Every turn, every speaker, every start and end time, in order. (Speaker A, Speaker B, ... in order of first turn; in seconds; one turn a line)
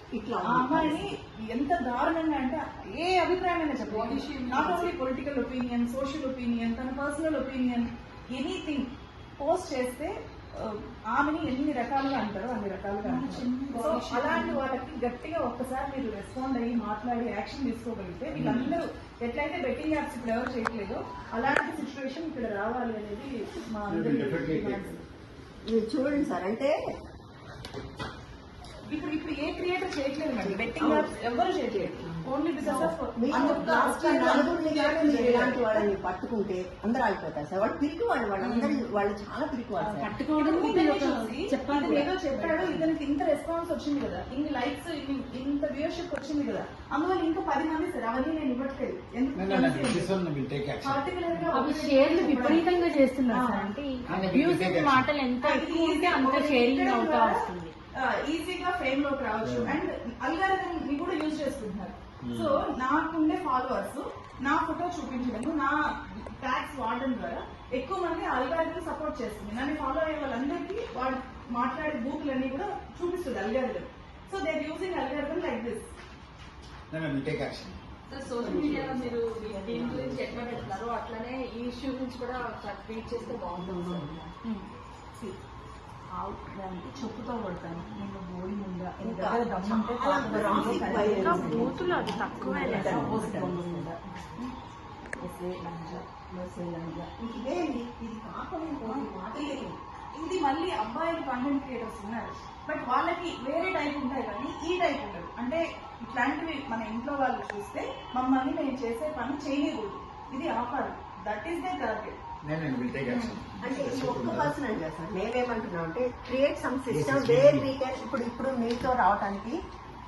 Speaker A: 0.1-1.1
Speaker B: 0.5-25.0
Speaker C: 3.8-4.8
Speaker C: 13.0-14.6
Speaker D: 18.3-18.8
Speaker D: 23.9-24.9
Speaker A: 25.6-26.7
Speaker B: 28.9-35.9
Speaker A: 30.4-31.1
Speaker A: 32.6-40.1
Speaker E: 39.8-42.9
Speaker B: 40.4-50.1
Speaker D: 49.3-51.1
Speaker B: 50.8-53.7
Speaker E: 51.5-57.7
Speaker D: 54.1-55.1
Speaker B: 55.4-75.9
Speaker D: 59.4-59.8
Speaker D: 62.2-62.6
Speaker D: 76.9-77.8
Speaker C: 78.1-84.2
Speaker D: 78.4-79.1
Speaker D: 79.9-80.7
Speaker A: 83.6-84.1
Speaker B: 86.1-94.5
Speaker A: 89.0-93.9
Speaker C: 90.8-93.9
Speaker E: 91.1-93.0
Speaker A: 95.2-99.8
Speaker B: 97.4-97.7
Speaker B: 98.8-112.1
Speaker D: 112.4-114.5
Speaker B: 113.0-113.4
Speaker A: 113.6-119.6
Speaker D: 116.9-117.7